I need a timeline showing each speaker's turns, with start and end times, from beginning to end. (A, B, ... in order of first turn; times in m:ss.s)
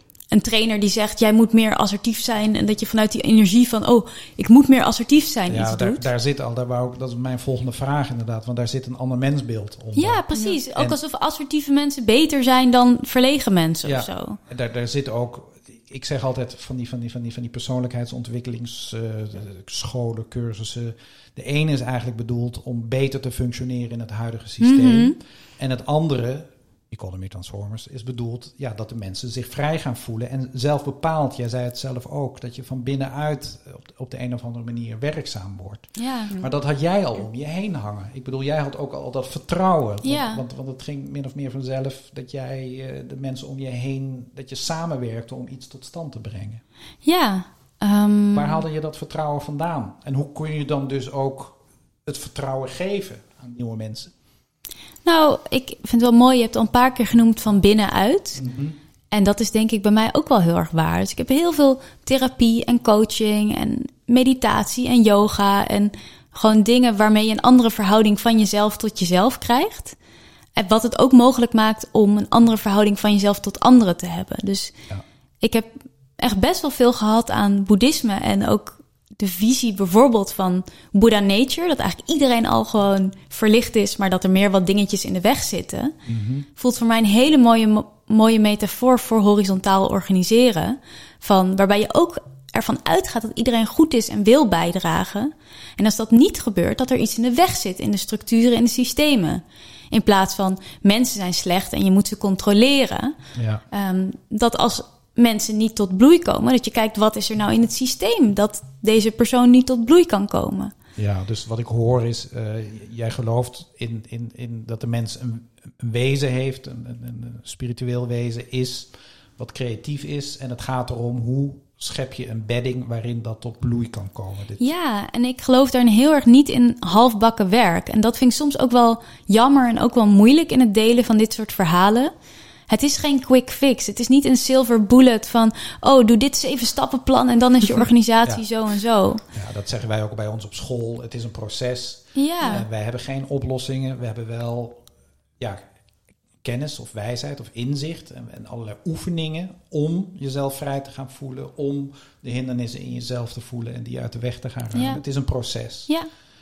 0:00.3-0:06.1 A
0:05.5-0:10.2 B
0:10.0-0:14.4 A
0:13.8-0:46.6 B
0:24.6-0:25.2 A
0:36.0-0:36.3 A
0:40.0-0:40.4 A
0:47.0-0:48.6 A
0:48.3-0:54.1 B
0:55.0-0:58.4 A
0:58.4-0:58.8 B
0:59.1-1:10.0 A
1:10.6-1:14.7 A
1:15.4-1:25.9 A
1:26.0-1:26.5 B
1:26.6-1:43.2 A
1:43.4-1:43.6 B
1:43.7-1:50.7 A
1:51.0-2:04.6 B
2:04.6-2:12.1 A
2:12.7-2:19.2 A
2:19.3-2:24.8 B
2:22.2-2:22.6 A
2:26.4-2:35.9 B
2:34.7-2:35.0 A